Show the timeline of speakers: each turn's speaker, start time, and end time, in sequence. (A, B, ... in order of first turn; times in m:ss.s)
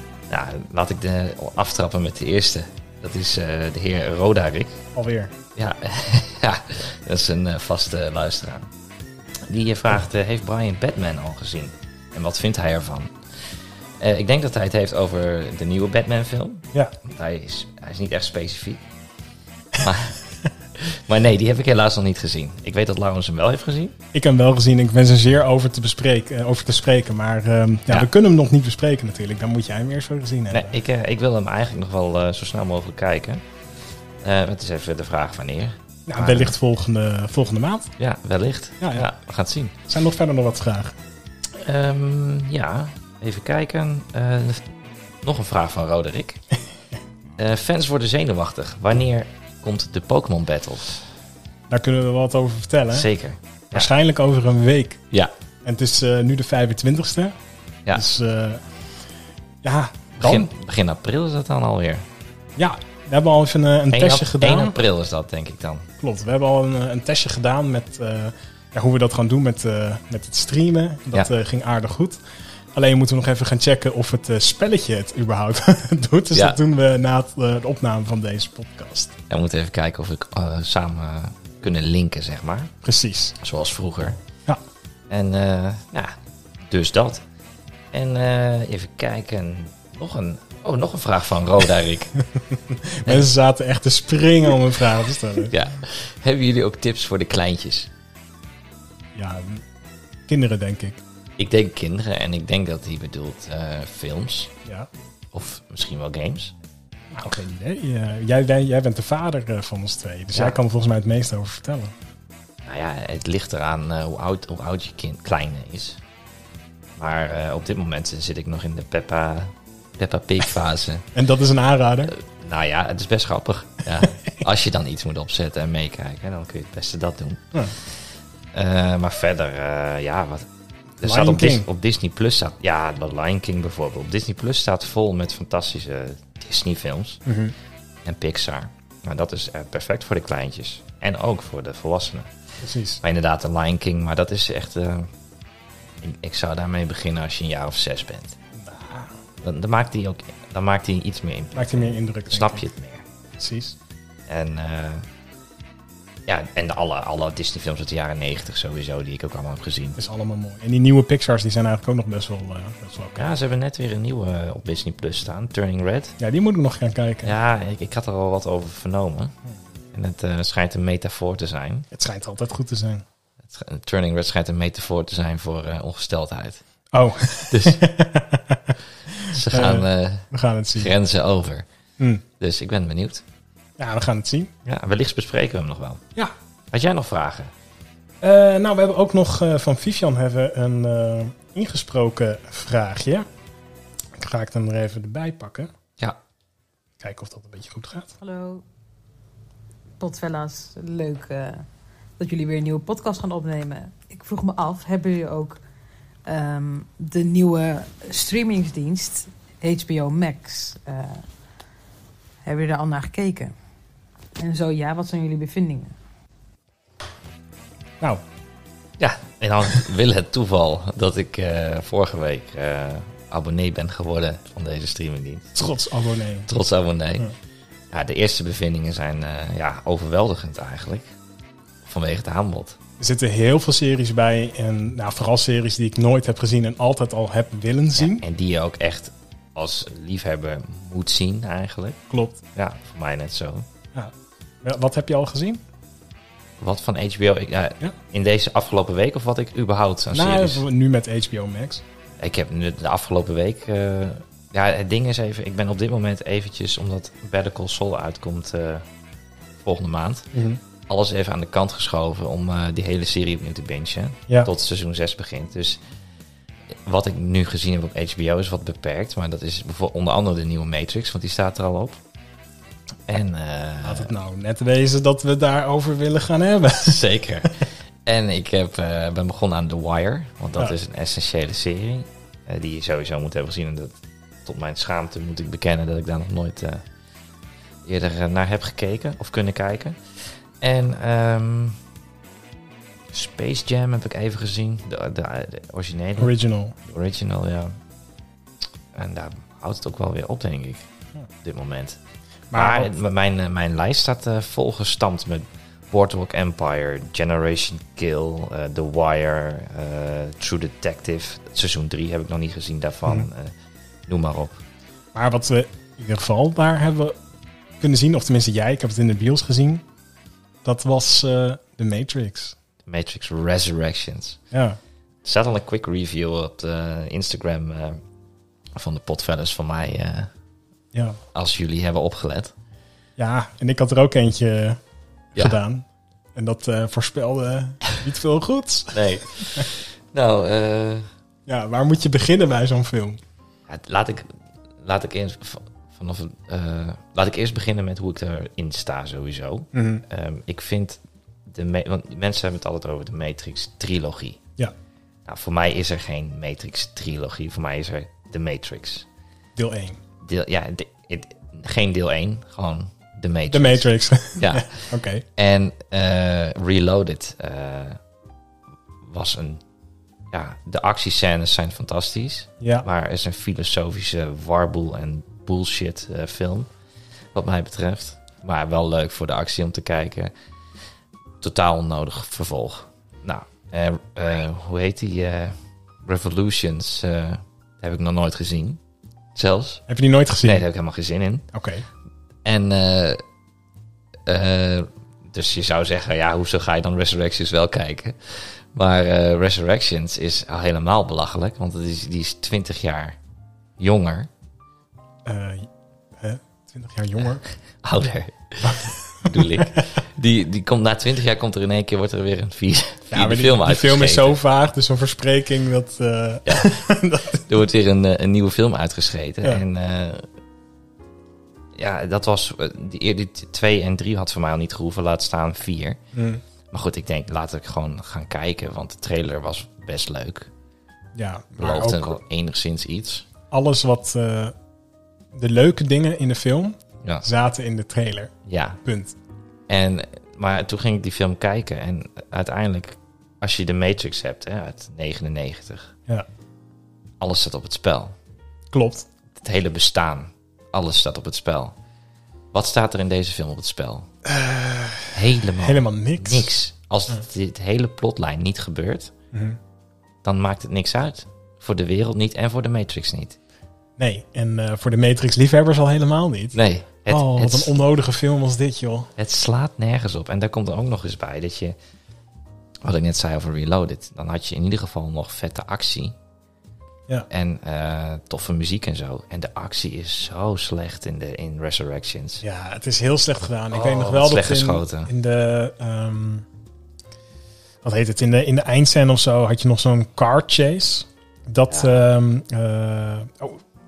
0:00.3-0:04.8 A
0:04.9-0:05.3 B
0:05.6-0:08.7 A
0:09.5-0:13.1 A
0:14.0-0:18.8 A
0:19.7-0:20.2 A
0:20.8-0:23.9 A
0:24.1-0:30.7 B
0:30.5-0:33.4 A
0:34.2-0:36.5 A
0:36.1-0:37.9 B
0:38.0-0:39.8 A
0:38.8-0:39.1 B
0:39.9-0:41.0 B
0:41.5-0:44.7 A
0:45.2-0:46.4 A
0:47.4-0:51.0 A
0:51.7-0:53.1 B
0:52.9-0:53.9 A
0:53.7-0:55.0 B
0:55.6-0:57.4 B
0:57.9-0:58.6 B
0:59.6-1:00.5 B
1:00.2-1:02.0 A
1:02.6-1:04.8 B
1:03.9-1:05.9 A
1:06.0-1:12.2 B
1:12.7-1:19.1 B
1:16.3-1:16.6 A
1:19.3-1:22.7 A
1:22.8-1:23.3 B
1:23.4-1:24.2 A
1:25.1-1:26.1 A
1:26.7-1:27.2 A
1:27.9-1:32.2 A
1:32.5-1:35.5 B
1:33.0-1:33.3 A
1:35.5-1:37.9 A
1:39.1-1:39.6 B
1:40.3-1:41.0 B
1:41.4-1:44.5 A
1:45.3-1:46.5 A
1:47.1-1:51.9 B
1:52.6-1:56.0 A
1:57.0-2:01.0 A
2:01.1-2:02.1 B
2:02.1-2:08.0 A
2:08.5-2:10.5 A
2:11.0-2:17.2 A
2:11.0-2:11.7 B
2:17.2-2:17.5 B
2:18.0-2:22.3 A
2:22.6-2:23.0 B
2:23.0-2:25.1 A
2:26.0-2:28.4 A
2:28.5-2:29.1 B
2:29.4-2:33.0 A
2:31.5-2:32.6 B
2:33.4-2:33.8 B
2:34.3-2:35.0 A
2:36.3-2:40.0 A
2:40.0-2:43.3 B
2:43.2-2:46.2 A
2:46.2-2:47.3 B
2:47.2-2:49.3 A
2:49.9-2:51.9 A
2:51.9-2:53.0 B
2:53.4-2:56.6 A
2:56.9-3:00.9 B
2:57.5-2:57.8 A
2:59.2-3:01.6 A
3:02.0-3:02.2 B
3:02.4-3:03.2 A
3:03.8-3:04.5 B
3:04.6-3:06.0 A
3:06.7-3:07.5 A
3:08.2-3:13.2 B
3:14.1-3:15.7 B
3:17.0-3:18.1 B
3:18.2-3:18.6 C
3:20.0-3:21.6 C
3:22.2-3:25.6 C
3:26.2-3:31.2 C
3:32.4-3:33.5 C
3:34.4-3:35.9 C
3:39.0-3:45.6 A
3:45.5-3:46.5 B
3:46.5-3:47.3 A
3:47.9-3:51.1 A
3:51.8-3:52.8 A
3:53.0-3:58.2 B
3:58.0-4:02.0 A
4:02.1-4:02.4 B
4:02.5-4:03.6 A
4:03.9-4:05.6 B
4:06.6-4:10.6 A
4:10.1-4:11.8 B
4:12.2-4:18.8 A
4:19.6-4:20.2 A
4:20.3-4:20.6 B
4:20.9-4:25.8 A
4:26.8-4:32.0 A
4:33.1-4:34.1 A
4:33.8-4:37.5 B
4:36.8-4:43.9 A
4:44.4-4:46.8 A
4:47.8-4:50.0 A
4:50.6-4:51.8 A
4:53.1-4:56.3 A
4:56.2-4:56.8 B
4:56.8-4:57.8 A
4:58.9-5:00.8 A
5:01.4-5:02.0 A
5:02.5-5:03.0 B
5:02.5-5:13.5 A
5:14.1-5:14.6 A
5:15.1-5:17.2 B
5:17.8-5:19.8 B
5:20.6-5:22.6 B
5:22.8-5:24.4 A
5:24.5-5:24.8 B
5:25.2-5:28.0 A
5:28.8-5:30.3 A
5:30.9-5:31.2 B
5:31.3-5:32.5 A
5:33.2-5:34.8 B
5:35.3-5:39.7 B
5:38.9-5:41.1 A
5:41.5-5:43.2 B
5:43.7-5:44.3 A
5:44.8-5:54.4 A
5:49.7-5:50.0 B
5:55.3-5:59.0 A
5:59.6-6:00.0 B
6:00.2-6:08.0 A
6:03.5-6:05.2 B
6:09.0-6:09.6 A
6:10.3-6:16.7 A
6:17.3-6:20.3 A
6:21.4-6:28.8 A
6:29.3-6:29.8 A
6:29.9-6:30.6 B
6:30.4-6:31.4 A
6:31.5-6:31.8 B
6:32.4-6:33.2 A
6:34.2-6:43.2 A
6:43.8-6:44.3 A
6:45.2-6:47.4 B
6:47.8-6:54.4 A
6:48.6-6:49.8 B
6:53.1-6:57.5 B
6:57.4-7:00.3 A
7:01.8-7:06.0 A
7:06.1-7:06.4 B
7:06.7-7:10.5 A
7:11.1-7:12.2 B
7:11.6-7:13.2 A
7:13.5-7:14.5 B
7:15.3-7:18.3 B
7:18.5-7:18.8 A
7:18.8-7:19.1 B
7:19.7-7:25.9 A
7:27.2-7:28.1 A
7:28.7-7:29.1 B
7:29.4-7:31.8 A
7:32.5-7:34.1 A
7:34.2-7:36.5 B
7:35.1-7:39.1 A
7:39.3-7:39.6 B
7:40.2-7:43.4 A
7:44.0-7:46.6 B
7:46.5-7:47.8 A
7:47.1-7:49.1 B
7:49.2-7:51.8 A
7:52.8-7:56.1 A
7:57.3-8:02.4 A
8:02.4-8:06.4 B
8:03.7-8:05.1 A
8:07.8-8:13.6 B
8:11.7-8:12.0 A